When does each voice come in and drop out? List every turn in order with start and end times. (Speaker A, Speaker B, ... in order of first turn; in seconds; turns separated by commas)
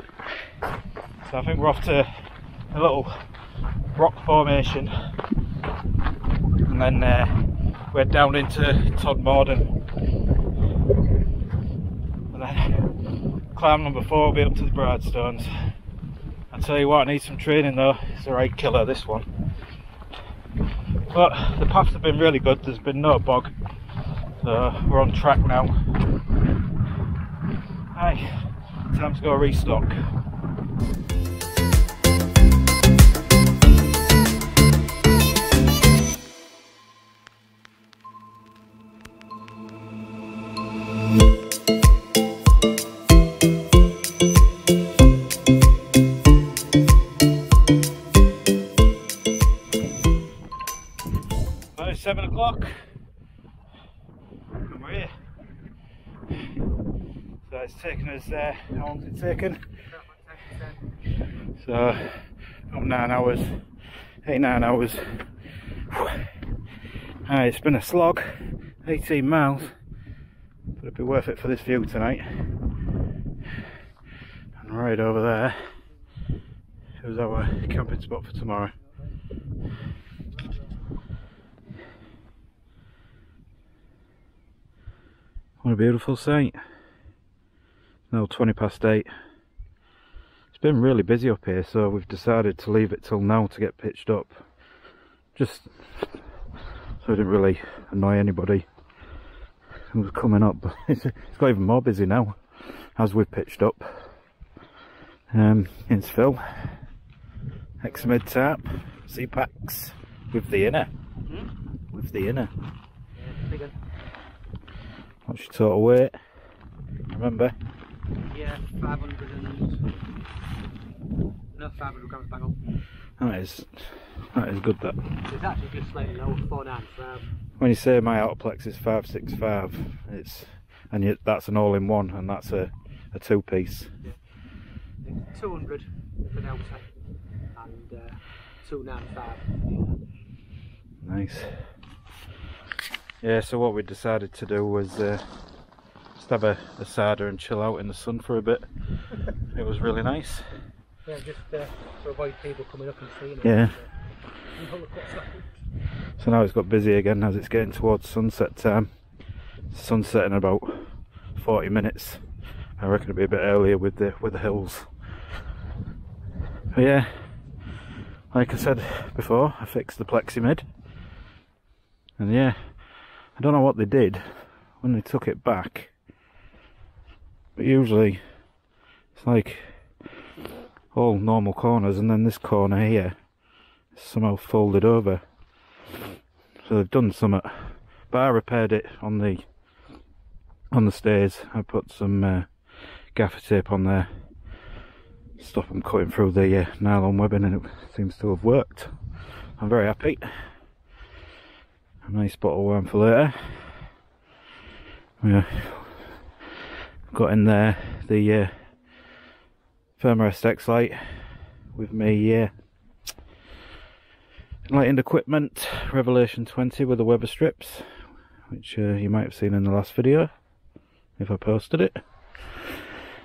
Speaker A: 1.2-3.2, Speaker A: 3.9-4.9, Speaker A: 6.6-9.8, Speaker A: 12.3-15.7, Speaker A: 16.5-19.3, Speaker A: 21.1-23.5, Speaker A: 24.4-25.9, Speaker A: 27.9-30.0, Speaker A: 51.7-52.9, Speaker A: 54.6-55.2, Speaker A: 57.4-59.6, Speaker B: 59.9-60.9, Speaker A: 61.5-63.6, Speaker A: 64.2-66.3, Speaker A: 67.2-69.7, Speaker A: 70.8-72.4, Speaker A: 74.6-75.7, Speaker A: 77.0-78.7, Speaker A: 85.6-86.6, Speaker A: 88.1-89.1, Speaker A: 90.5-94.4, Speaker A: 95.3-96.2, Speaker A: 97.0-98.7, Speaker A: 99.9-104.2, Speaker A: 105.3-106.7, Speaker A: 107.8-110.9, Speaker A: 111.9-112.5, Speaker B: 113.2-113.8, Speaker A: 115.3-116.2, Speaker A: 117.1-117.5, Speaker B: 118.3-119.8, Speaker B: 121.5-122.6, Speaker A: 123.2-125.1, Speaker B: 125.2-127.3, Speaker A: 127.6-133.9, Speaker B: 135.0-136.9, Speaker B: 137.5-140.0, Speaker A: 141.0-141.7, Speaker A: 143.2-145.4, Speaker A: 146.2-148.7, Speaker A: 149.4-150.6, Speaker B: 151.1-155.6, Speaker A: 153.4-153.8, Speaker A: 156.2-158.9, Speaker A: 159.7-162.2, Speaker A: 162.8-164.9, Speaker A: 166.7-167.3, Speaker A: 168.3-170.6, Speaker A: 172.2-175.9, Speaker A: 177.6-178.2, Speaker A: 179.1-179.9, Speaker A: 180.9-183.2, Speaker A: 183.9-185.2, Speaker A: 186.6-189.4, Speaker A: 190.7-194.2, Speaker A: 195.4-198.9, Speaker A: 199.6-200.3, Speaker A: 202.0-203.8, Speaker A: 205.2-206.2, Speaker A: 207.1-208.7, Speaker A: 210.0-211.0, Speaker A: 211.7-212.5, Speaker A: 214.7-220.3, Speaker A: 221.2-222.9